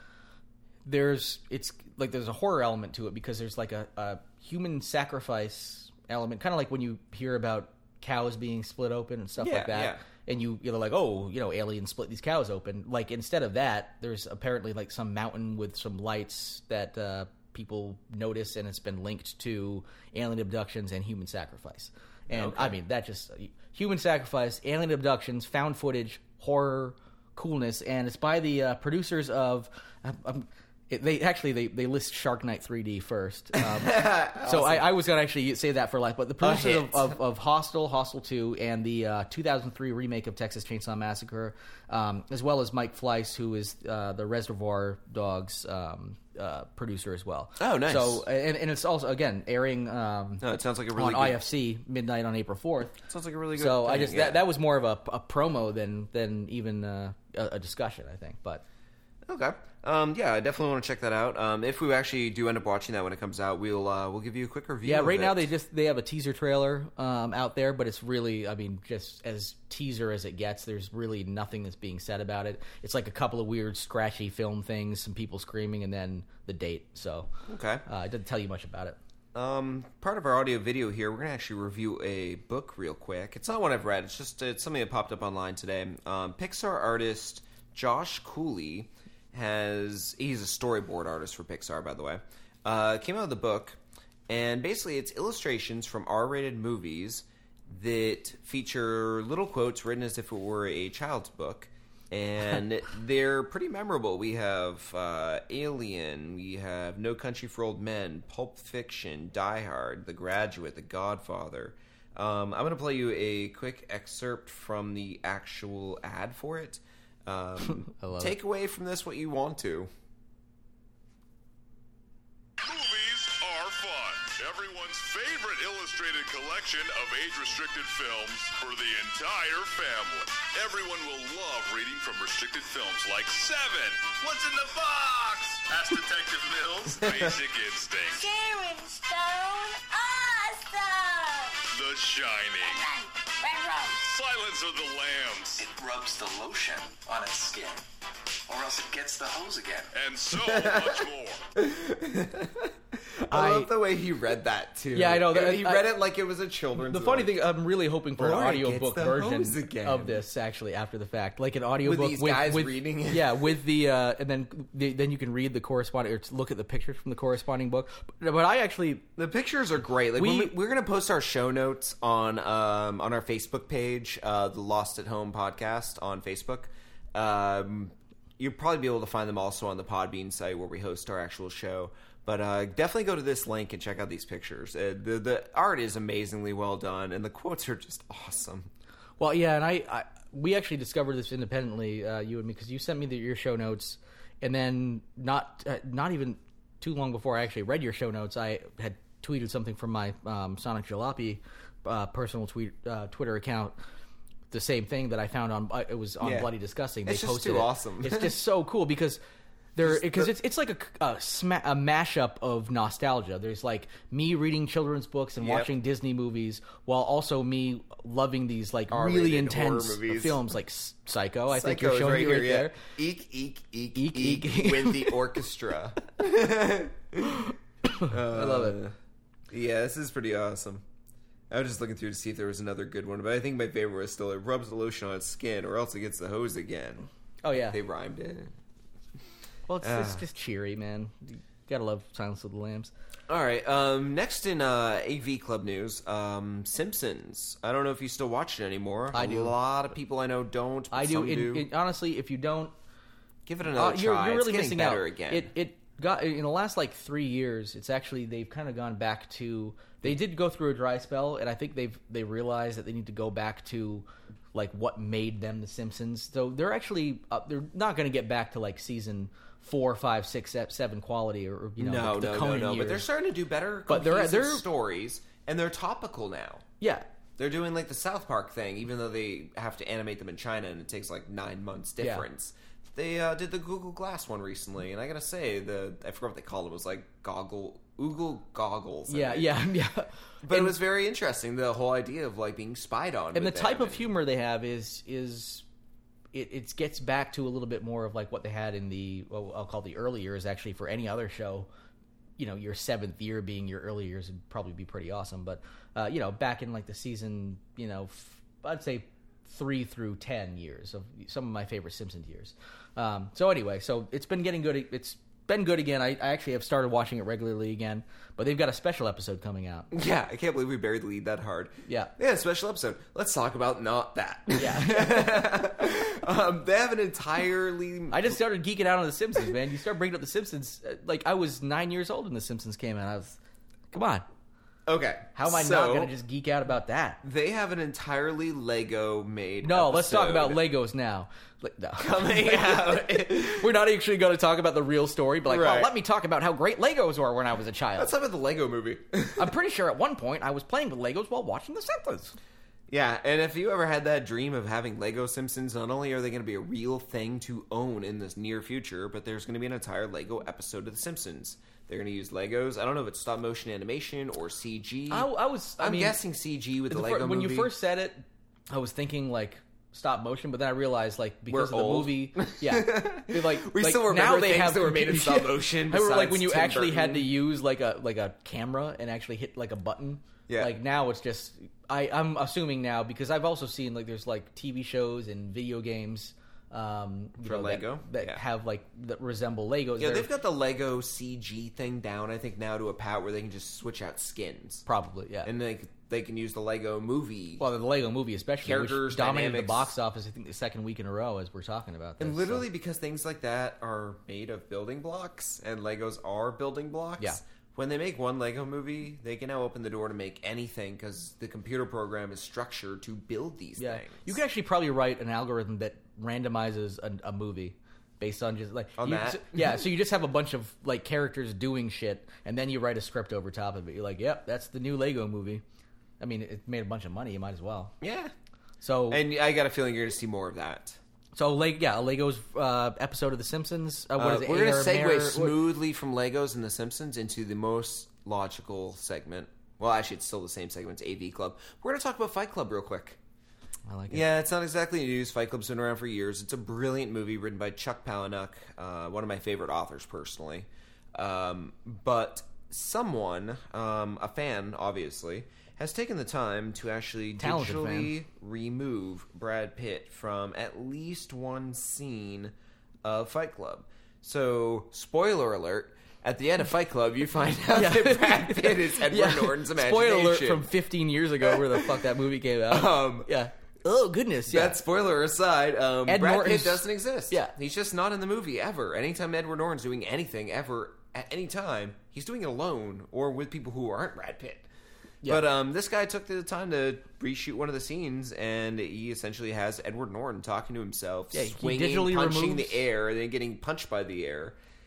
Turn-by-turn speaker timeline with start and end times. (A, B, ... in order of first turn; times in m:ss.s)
0:00.8-0:53.0 A
0:09.4-0:10.0 B
0:22.3-0:22.8 B
0:33.6-0:34.9 B
0:36.4-0:37.1 B
0:47.6-0:48.2 B
0:50.4-0:51.4 B
0:53.0-0:54.4 B
0:53.6-0:58.6 A
0:59.2-1:05.5 B
1:04.8-1:17.3 A
1:17.5-1:17.8 B
1:17.9-1:19.0 A
1:19.3-1:59.9 B
1:57.7-1:58.4 A
2:02.6-2:18.3 C
2:17.0-2:17.3 B
2:18.1-2:21.6 D
2:21.7-2:22.8 C
2:22.6-2:24.0 D
2:24.0-2:25.7 C
2:25.8-2:27.6 E
2:28.5-2:29.8 E
2:29.9-2:31.4 C
2:30.3-2:37.4 B
2:33.3-2:33.7 A
2:34.9-2:36.0 A
2:36.8-2:49.1 A
2:38.2-2:40.2 B
2:41.8-2:43.6 B
2:49.2-3:08.7 B
2:50.1-2:50.6 A
3:09.2-3:23.7 A
3:24.5-3:29.2 A
3:26.2-3:26.5 B
3:27.0-3:28.3 B
3:29.8-3:42.8 A
3:29.8-3:30.3 B
3:35.4-3:35.7 B
3:38.9-3:40.4 B
3:41.5-3:47.5 B
3:44.0-3:45.2 A
3:47.3-3:48.8 A
3:48.1-3:49.0 B
3:49.5-3:50.8 B
3:51.5-3:57.1 B
3:57.4-3:57.8 A
3:57.6-3:58.5 B
3:59.7-4:02.9 A
3:59.8-4:00.2 B
4:03.3-4:11.7 B
4:09.1-4:09.6 A
4:10.9-4:12.7 A
4:13.5-4:15.5 B
4:13.7-4:33.1 A
4:31.8-4:36.6 B
4:33.9-4:34.7 A
4:36.8-4:37.0 A
4:37.4-4:49.6 B
4:42.0-4:42.3 A
4:49.1-4:50.8 A
4:50.4-4:54.1 B
4:53.4-4:55.6 A
4:56.3-5:01.7 A
5:02.4-5:19.9 A
5:19.9-5:28.4 B
5:21.9-5:22.1 A
5:24.6-5:25.4 A
5:28.1-5:33.4 A
5:33.9-5:34.3 A
5:34.9-5:36.1 B
5:35.4-5:37.2 A
5:37.2-5:40.6 B
5:39.6-5:48.1 A
5:42.0-5:43.7 B
5:45.4-5:45.9 B
5:48.0-5:49.5 B
5:49.4-5:52.4 A
5:52.9-6:07.7 B
6:05.1-6:06.2 A
6:06.9-6:30.3 A
6:11.5-6:17.3 B
6:20.5-6:20.8 B
6:27.4-6:28.4 B
6:30.0-6:34.8 B
6:34.9-6:35.5 A
6:35.4-6:37.6 B
6:37.6-6:42.7 A
6:38.6-6:39.9 B
6:42.2-6:54.4 B
6:53.8-7:05.6 A
6:59.0-6:59.9 B
7:06.2-7:08.0 A
7:08.0-7:08.3 B
7:08.8-7:09.2 A
7:09.1-7:11.0 B
7:11.4-7:15.6 A
7:14.2-7:23.2 B
7:23.9-7:24.3 A
7:24.1-7:50.7 B
7:37.4-7:38.1 A
7:47.7-7:54.8 A
7:51.4-7:52.0 B
7:52.7-7:53.3 B
7:54.5-8:04.7 B
7:56.1-7:57.5 A
8:05.2-8:14.6 B
8:11.3-8:12.8 A